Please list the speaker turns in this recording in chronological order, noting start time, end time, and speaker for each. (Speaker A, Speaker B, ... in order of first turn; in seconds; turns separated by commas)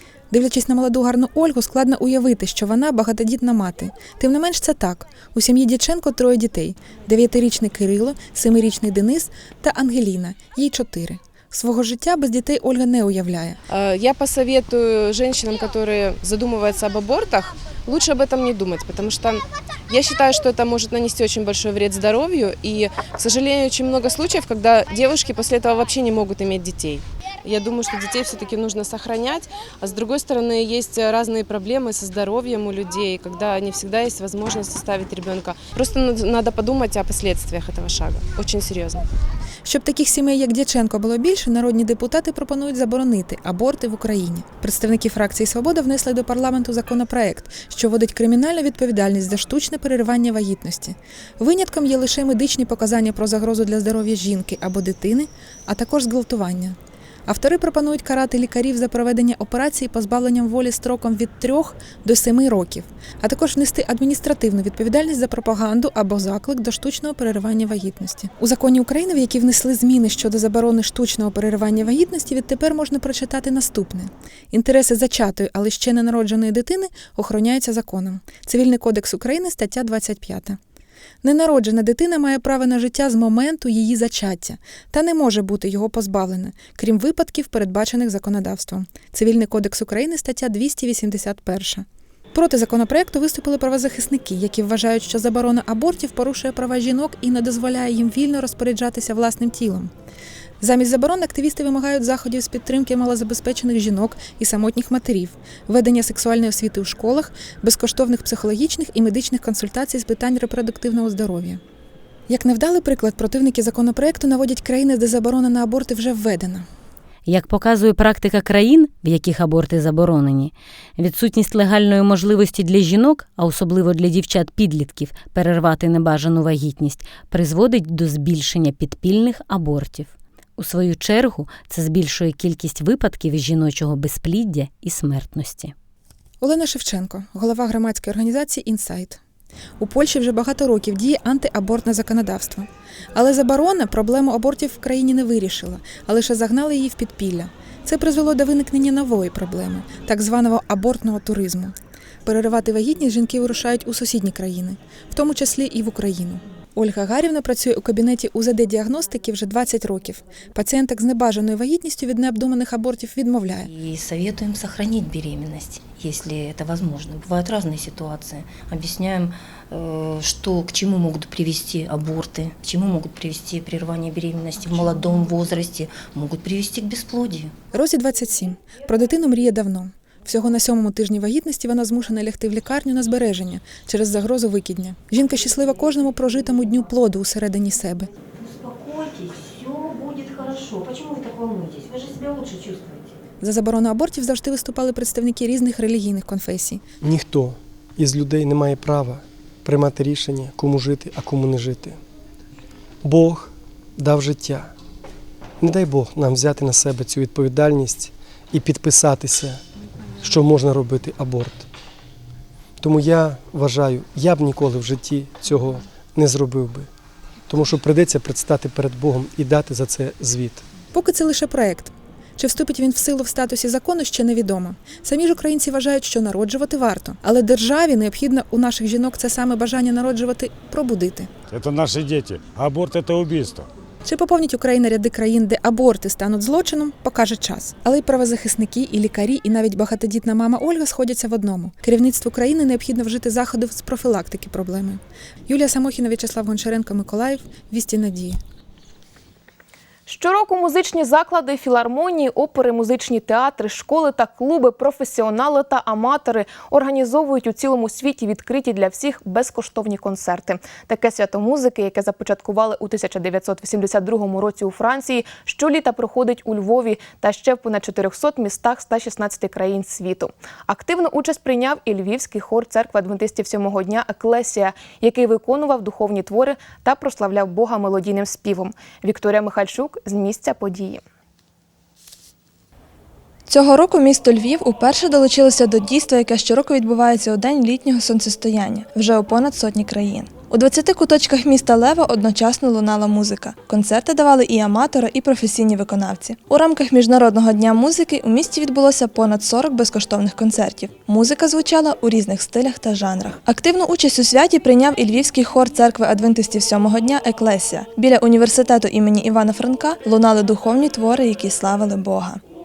Speaker A: 0.3-13.6, Speaker B: 13.7-39.0, Speaker A: 39.6-80.6, Speaker A: 81.2-99.9, Speaker A: 100.6-111.6, Speaker A: 112.3-116.7, Speaker C: 117.3-135.7, Speaker A: 136.4-139.2, Speaker A: 139.8-151.7, Speaker A: 152.3-163.7, Speaker D: 163.7-177.6, Speaker A: 177.7-188.1, Speaker D: 188.4-193.2, Speaker A: 193.4-196.8, Speaker E: 197.0-202.0, Speaker E: 203.0-204.7, Speaker E: 205.6-209.6, Speaker E: 210.2-211.7, Speaker E: 212.8-216.9, Speaker E: 217.5-220.7, Speaker A: 220.9-231.3, Speaker F: 231.5-233.7, Speaker A: 234.1-248.4, Speaker G: 250.1-281.0, Speaker H: 283.5-312.4